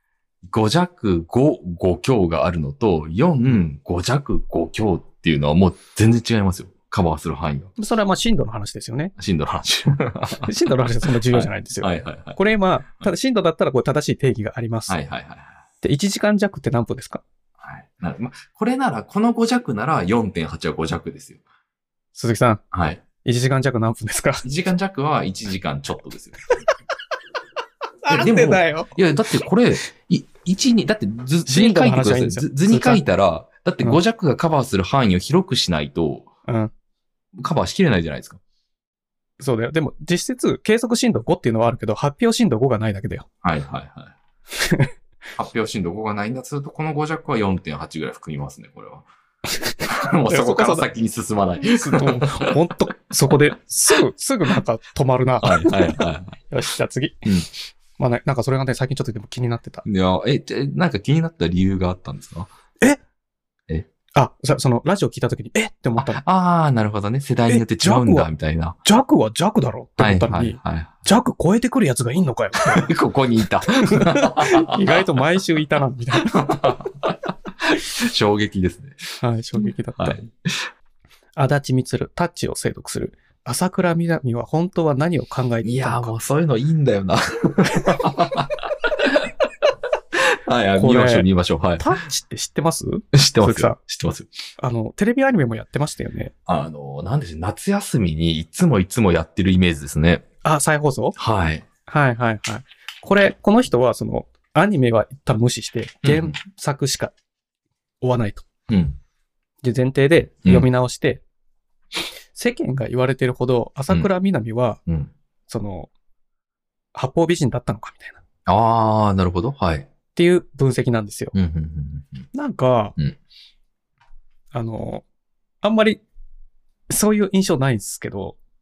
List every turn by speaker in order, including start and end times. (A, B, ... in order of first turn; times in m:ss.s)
0:00.4-0:07.7 A
0:07.8-0:09.1 B
0:09.2-0:12.4 A
0:10.4-0:15.0 B
0:14.9-0:15.6 A
0:15.8-0:17.2 B
0:17.6-0:21.4 A
0:22.2-0:22.6 B
0:22.7-0:23.0 A
0:23.2-0:24.4 B
0:24.4-0:26.4 A
0:28.0-0:29.0 B
0:28.1-0:36.3 A
0:31.5-0:33.0 B
0:36.5-0:36.7 B
0:37.4-0:38.4 A
0:39.4-0:43.3 B
0:43.4-0:44.2 A
0:44.6-0:44.9 B
0:45.4-0:49.1 A
0:49.6-0:50.9 B
0:49.8-0:52.6 A
0:51.7-0:57.3 B
0:55.4-0:56.4 A
0:58.0-0:59.8 B
0:59.8-1:02.5 A
1:04.2-1:06.2 B
1:06.0-1:08.8 A
1:07.5-1:08.3 B
1:08.8-1:12.9 B
1:10.0-1:11.0 A
1:12.6-1:15.1 A
1:13.8-1:16.7 B
1:16.3-1:19.0 A
1:19.2-1:20.2 B
1:19.6-1:20.7 A
1:21.4-1:26.1 B
1:25.6-1:29.3 A
1:30.1-1:31.9 A
1:30.8-1:31.3 B
1:31.8-1:33.8 B
1:33.1-1:34.3 A
1:34.6-1:36.3 B
1:36.5-1:40.2 A
1:40.4-1:41.2 B
1:41.2-1:41.7 A
1:41.9-1:47.1 B
1:46.0-1:46.4 A
1:48.0-1:48.5 B
1:48.7-1:49.0 A
1:49.6-1:51.2 B
1:52.3-1:54.8 B
1:54.9-1:55.1 A
1:55.5-1:55.9 B
1:57.0-1:58.2 B
1:58.5-1:59.9 A
2:00.2-2:01.3 B
2:01.3-2:02.3 A
2:02.3-2:03.0 B
2:04.5-2:05.0 B
2:05.6-2:06.0 B
2:06.9-2:08.4 B